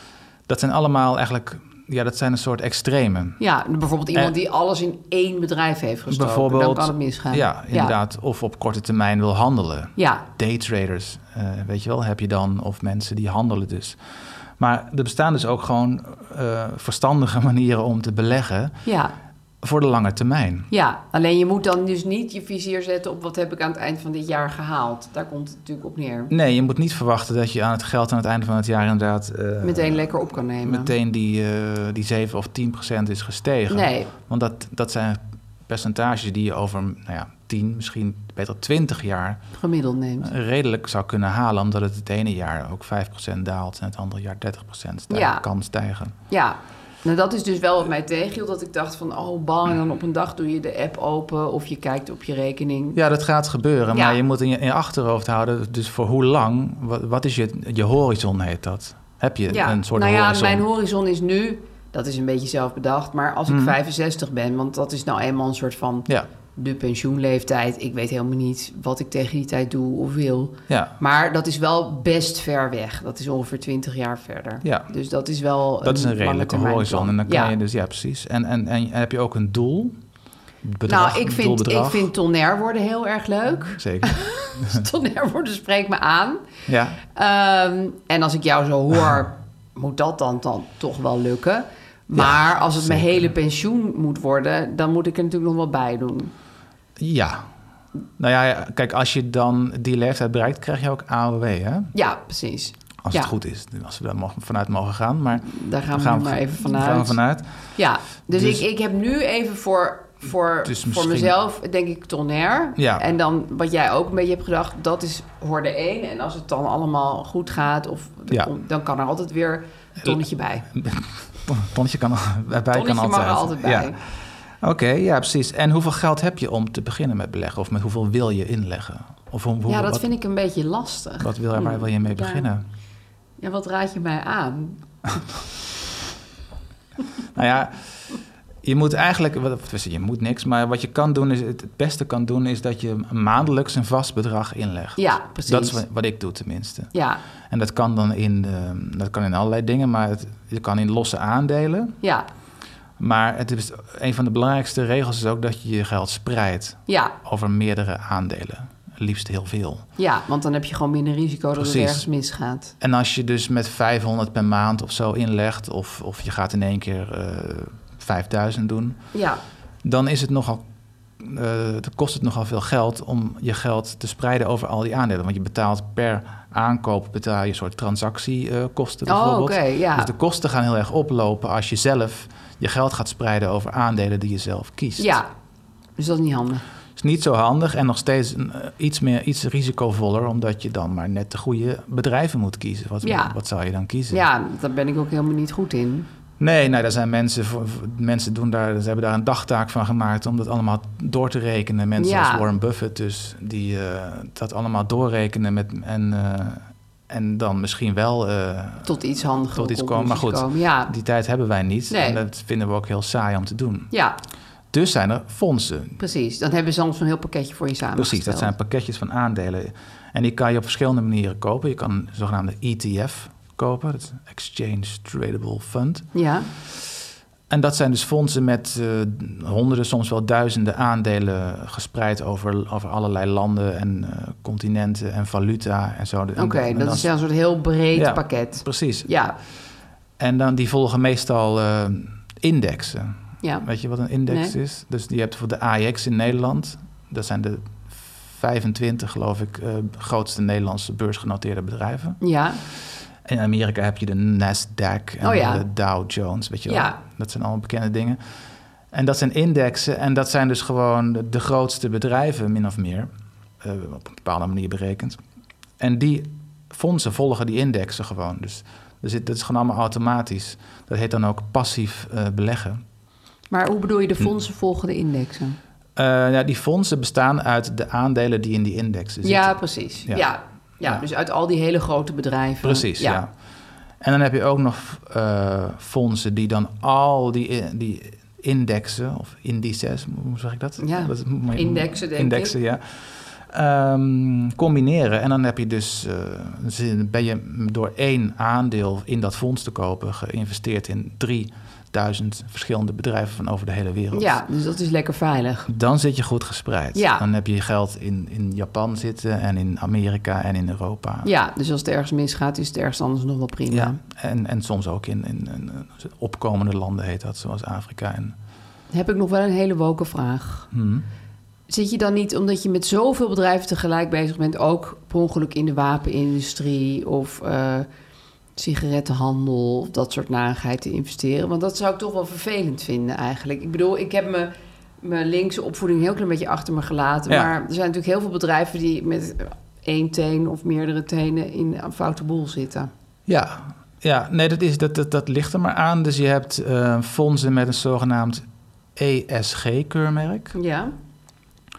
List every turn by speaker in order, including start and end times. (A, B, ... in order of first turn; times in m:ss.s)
0:00.5-0:03.4 A
0:03.4-0:08.0 B
0:06.1-0:14.0 A
0:10.0-0:10.2 B
0:14.6-0:18.8 A
0:18.8-0:19.1 B
0:19.6-0:20.7 A
0:20.7-0:26.3 B
0:26.3-0:39.4 A
0:29.6-0:31.0 B
0:33.7-0:34.1 B
0:39.5-0:40.3 B
0:40.2-0:46.1 A
0:45.1-0:45.4 B
0:46.3-0:53.0 B
0:53.0-1:00.6 A
0:53.9-0:54.2 B
0:59.5-1:17.6 B
1:03.5-1:03.8 A
1:10.7-1:10.9 A
1:14.6-1:14.9 A
1:15.8-1:20.0 A
1:20.6-1:22.1 A
1:20.9-1:26.4 B
1:23.8-1:24.8 A
1:26.7-1:27.0 A
1:27.1-1:36.3 B
1:32.2-1:33.3 A
1:37.0-1:37.5 A
1:38.2-1:41.9 A
1:41.9-1:43.3 B
1:43.0-1:47.5 A
1:45.4-1:47.2 B
1:47.8-2:00.7 B
1:48.3-1:48.6 A
1:50.6-1:51.4 A
1:52.8-1:53.0 A
2:00.7-2:03.9 A
2:02.7-2:04.0 B
2:04.6-2:10.1 A
2:09.7-2:12.5 B
2:11.2-2:12.6 A
2:13.4-2:14.8 B
2:17.4-2:17.8 A
2:18.6-2:26.9 A
2:25.0-2:25.8 B
2:26.9-2:27.2 B
2:27.5-2:32.0 A
2:33.0-2:39.8 A
2:36.9-2:37.2 B
2:40.0-2:42.7 B
2:41.6-2:42.1 A
2:42.8-2:49.0 A
2:49.1-2:49.4 B
2:49.8-2:50.6 A
2:51.2-3:05.2 A
2:59.1-3:00.1 B
3:05.0-3:05.3 B
3:06.0-3:06.6 B
3:07.0-3:14.2 A
3:13.0-3:13.4 B
3:14.1-3:16.1 B
3:16.4-3:28.9 A
3:22.0-3:22.5 B
3:28.8-3:30.9 B
3:29.5-3:33.9 A
3:31.9-3:32.2 B
3:34.7-3:36.0 A
3:36.0-3:38.5 B
3:38.0-3:46.1 A
3:46.1-3:46.5 B
3:47.5-3:57.1 A
3:56.4-3:59.4 B
3:57.9-3:59.1 A
4:00.2-4:12.2 A
4:04.3-4:04.5 B
4:12.2-4:12.6 B
4:13.2-4:18.2 A
4:15.2-4:15.7 B
4:16.7-4:17.0 B
4:18.9-4:23.1 A
4:23.6-4:25.2 A
4:25.8-4:32.8 A
4:33.5-4:35.6 B
4:36.0-4:40.3 A
4:39.2-4:43.2 B
4:42.6-4:43.3 A
4:44.0-5:04.4 A
4:50.8-4:52.5 B
5:04.1-5:05.7 B
5:05.7-5:11.3 A
5:06.9-5:07.2 B
5:11.2-5:14.0 B
5:13.7-5:18.4 A
5:18.9-5:20.7 B
5:20.7-5:21.0 A
5:21.7-5:27.9 B
5:28.6-5:34.5 B
5:35.0-5:42.9 B
5:43.3-5:48.4 A
5:49.0-5:50.6 A
5:50.5-5:50.9 B